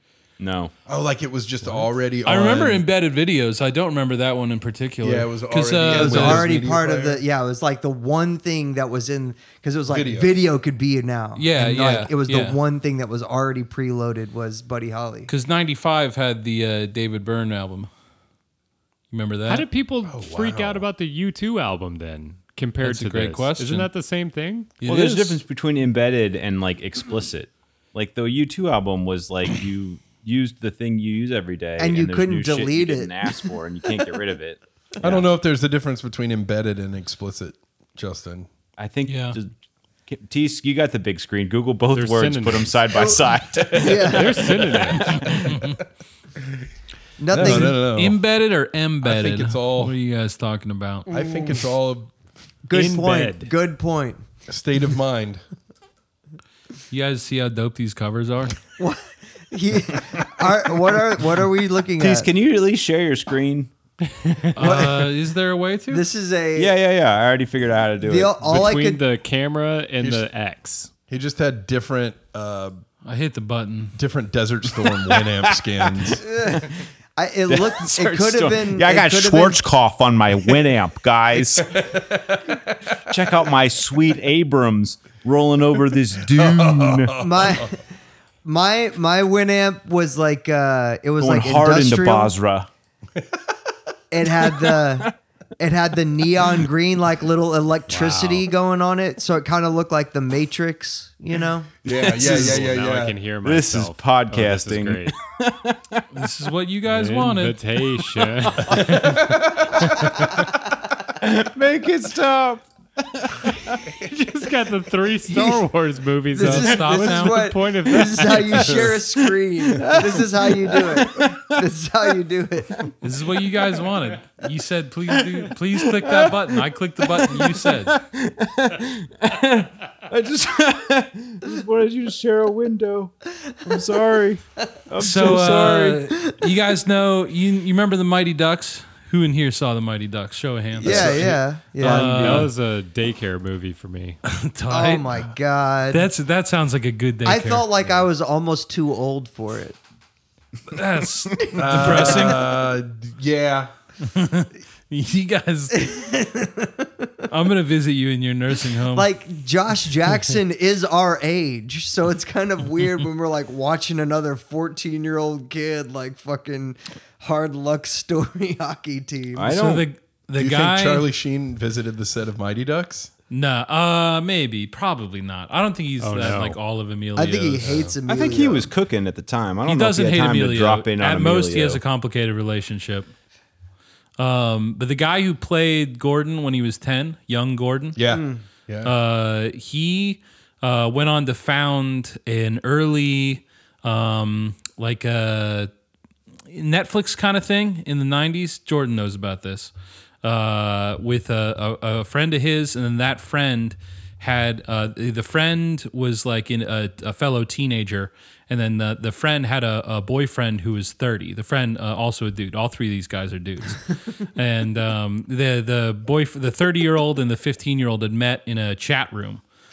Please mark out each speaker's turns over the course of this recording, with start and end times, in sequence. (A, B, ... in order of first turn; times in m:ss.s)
0:00.4-0:00.7 A
0:00.8-0:02.8 B
0:02.2-0:06.4 C
0:05.0-0:07.2 B
0:05.9-0:15.3 D
0:09.9-0:10.3 B
0:11.4-0:12.6 C
0:15.3-0:17.9 C
0:19.1-0:19.7 C
0:19.5-0:24.8 E
0:20.0-0:20.9 B
0:22.8-0:23.9 C
0:24.8-0:25.4 C
0:24.8-0:35.3 A
0:31.8-0:33.5 D
0:35.0-0:38.5 B
0:38.8-0:39.5 A
0:39.1-0:39.4 C
0:40.1-0:45.1 A
0:41.9-0:42.8 E
0:43.7-0:44.4 D
0:44.0-0:45.2 E
0:44.5-0:45.8 B
0:45.2-0:45.8 C
0:47.2-0:47.8 D
0:47.3-0:48.2 B
0:47.4-0:51.1 C
0:49.0-0:49.9 B
0:51.1-0:52.1 B
0:51.1-0:51.6 D
0:52.6-0:54.2 D
0:52.7-0:53.5 E
0:54.5-0:55.4 B
0:56.9-0:58.6 C
0:58.8-1:02.3 D
1:02.0-1:03.7 A
1:04.2-1:04.5 E
1:04.5-1:06.0 C
1:04.6-1:05.1 D
1:05.9-1:06.7 D
1:06.6-1:08.4 A
1:08.0-1:09.0 D
1:08.4-1:10.9 E
1:10.0-1:10.2 B
1:11.1-1:12.8 B
1:13.0-1:14.0 C
1:14.0-1:16.2 B
1:14.8-1:16.8 A
1:16.2-1:19.7 D
1:17.5-1:21.8 A
1:21.3-1:23.2 B
1:23.1-1:27.1 A
1:26.2-1:27.8 B
1:27.2-1:27.8 D
1:28.4-1:32.3 D
1:31.2-1:32.7 A
1:34.1-1:41.8 D
1:34.4-1:35.0 A
1:37.9-1:38.5 E
1:41.8-1:43.2 B
1:41.9-1:42.6 A
1:42.2-1:45.1 E
1:43.4-1:46.0 A
1:46.1-1:47.6 C
1:46.9-1:49.3 E
1:48.1-1:50.5 A
1:48.8-1:49.8 B
1:51.2-1:53.9 A
1:53.9-1:58.9 E
1:55.3-1:55.6 D
1:56.3-2:02.9 D
1:56.4-1:57.4 C
1:58.7-1:59.0 A
1:59.6-2:01.5 A
2:03.0-2:08.0 C
2:05.2-2:13.1 A
2:13.6-2:16.0 A
2:15.0-2:22.5 C
2:15.2-2:16.3 D
2:20.8-2:22.5 D
2:21.8-2:24.2 E
2:24.2-2:25.1 C
2:24.7-2:26.0 D
2:25.9-2:27.6 C
2:27.2-2:29.8 D
2:30.7-2:32.4 C
2:31.5-2:33.7 B
2:31.6-2:32.4 D
2:34.0-2:35.9 C
2:35.7-2:37.1 D
2:37.3-2:39.1 C
2:38.9-2:49.6 D
2:49.3-2:49.8 A
2:49.5-2:51.1 C
2:50.4-2:53.1 B
2:53.3-2:57.8 C
2:56.0-2:56.6 E
2:57.1-2:58.7 D
2:57.6-2:57.9 B
2:58.1-3:01.8 A
2:59.6-3:03.1 C
3:04.2-3:08.0 C
3:07.9-3:08.9 B
3:08.1-3:08.4 D
3:08.8-3:15.7 C
3:16.5-3:39.4 C